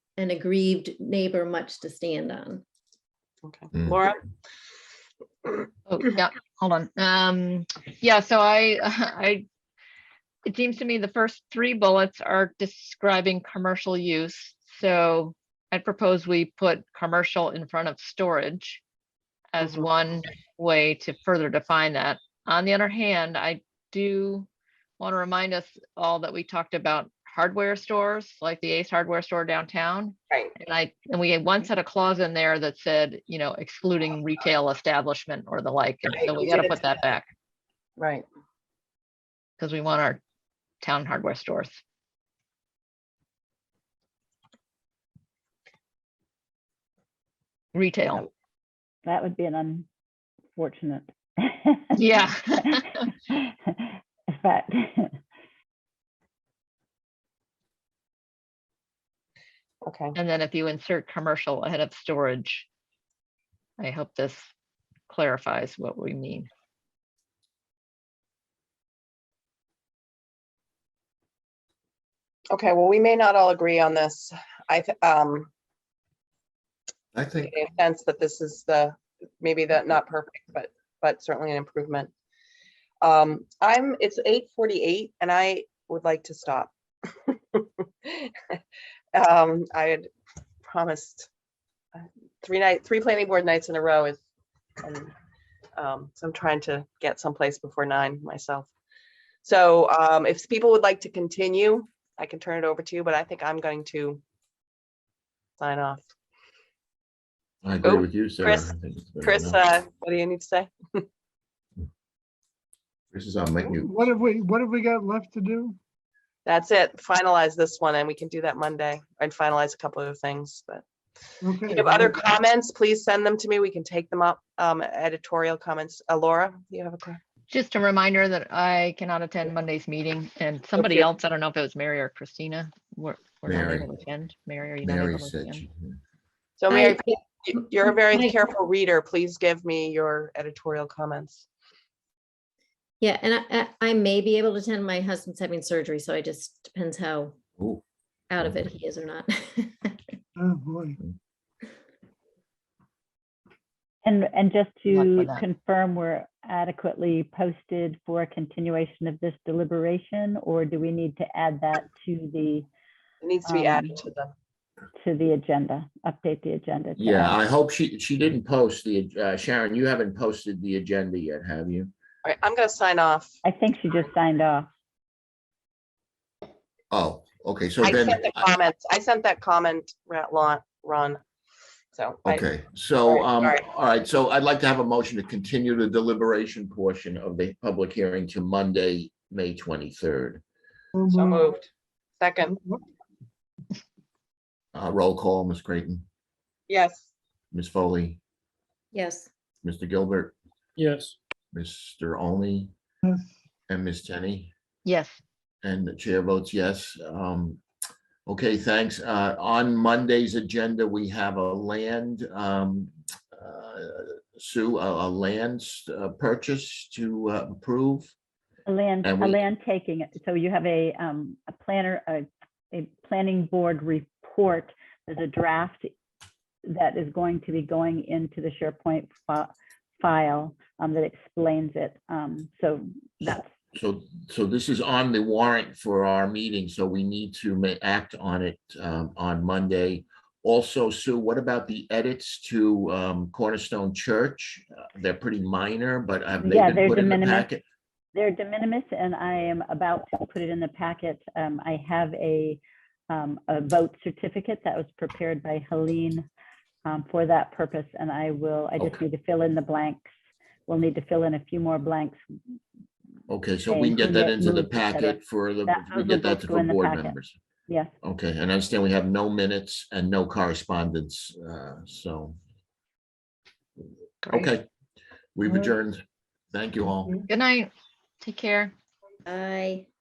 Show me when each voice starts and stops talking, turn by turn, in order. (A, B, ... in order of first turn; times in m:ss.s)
0:00.2-0:02.6 A
0:03.4-0:04.2 B
0:05.9-0:09.4 C
0:10.4-0:18.8 C
0:19.5-0:24.5 C
0:25.0-0:37.2 C
0:36.1-0:36.9 B
0:38.0-0:38.2 B
0:39.6-0:40.2 C
0:40.8-0:41.8 C
0:47.7-0:48.2 C
0:49.0-0:49.9 D
0:50.6-0:52.0 D
0:52.0-0:53.0 C
0:53.3-0:55.2 D
0:59.8-1:00.2 B
1:00.2-1:02.6 C
1:03.8-1:04.5 C
1:05.1-1:06.5 C
1:12.5-1:15.5 B
1:17.1-1:17.5 E
1:17.4-1:22.1 B
1:23.0-1:28.6 B
1:29.1-1:30.1 B
1:30.7-1:31.3 B
1:31.9-1:34.2 B
1:34.8-1:35.1 B
1:35.8-1:38.7 B
1:39.4-1:44.2 B
1:45.6-1:46.1 B
1:47.6-1:49.6 E
1:47.8-1:48.7 B
1:49.2-1:51.0 B
1:53.1-1:53.9 E
1:53.6-1:55.8 F
1:56.4-2:00.8 B
2:01.4-2:02.3 F
2:01.6-2:07.2 B
2:07.5-2:15.6 C
2:10.7-2:11.1 B
2:13.5-2:13.9 E
2:14.8-2:16.0 E
2:16.6-2:21.5 B
2:16.7-2:17.0 A
2:18.1-2:18.4 A
2:23.0-2:27.4 A
2:27.6-2:27.8 E
2:28.3-2:30.0 A
2:30.4-2:31.0 F
2:34.0-2:42.7 D
2:34.9-2:35.4 C
2:43.2-2:44.3 B
2:43.4-2:44.0 D
2:45.0-2:47.4 D
2:47.0-2:51.9 E
2:52.2-2:53.4 B
2:53.4-2:54.7 D
2:56.9-2:58.5 E
2:57.8-3:01.2 B
3:01.9-3:02.5 B
3:02.2-3:10.4 E
3:03.0-3:03.6 B
3:10.9-3:11.6 F
3:11.1-3:11.6 B
3:12.2-3:12.6 B
3:14.7-3:16.0 E
3:16.7-3:17.1 B
3:17.5-3:18.2 E
3:18.9-3:19.3 A
3:19.6-3:20.3 E
3:21.5-3:22.7 E
3:23.7-3:24.5 E
3:24.8-3:25.2 C
3:25.6-3:27.6 E
3:28.2-3:38.1 E
3:38.6-3:45.9 D
3:39.0-3:39.4 E
3:46.6-3:53.5 D
3:53.7-4:07.6 E
4:06.4-4:07.5 D
4:08.1-4:16.2 D
4:16.8-4:20.1 D
4:20.7-4:22.2 D
4:23.3-4:27.4 E
4:23.7-4:27.2 D
4:27.7-4:27.9 D
4:28.0-4:32.4 E
4:34.3-4:34.7 E
4:35.3-4:37.2 E
4:37.3-4:38.7 C
4:39.2-4:39.9 A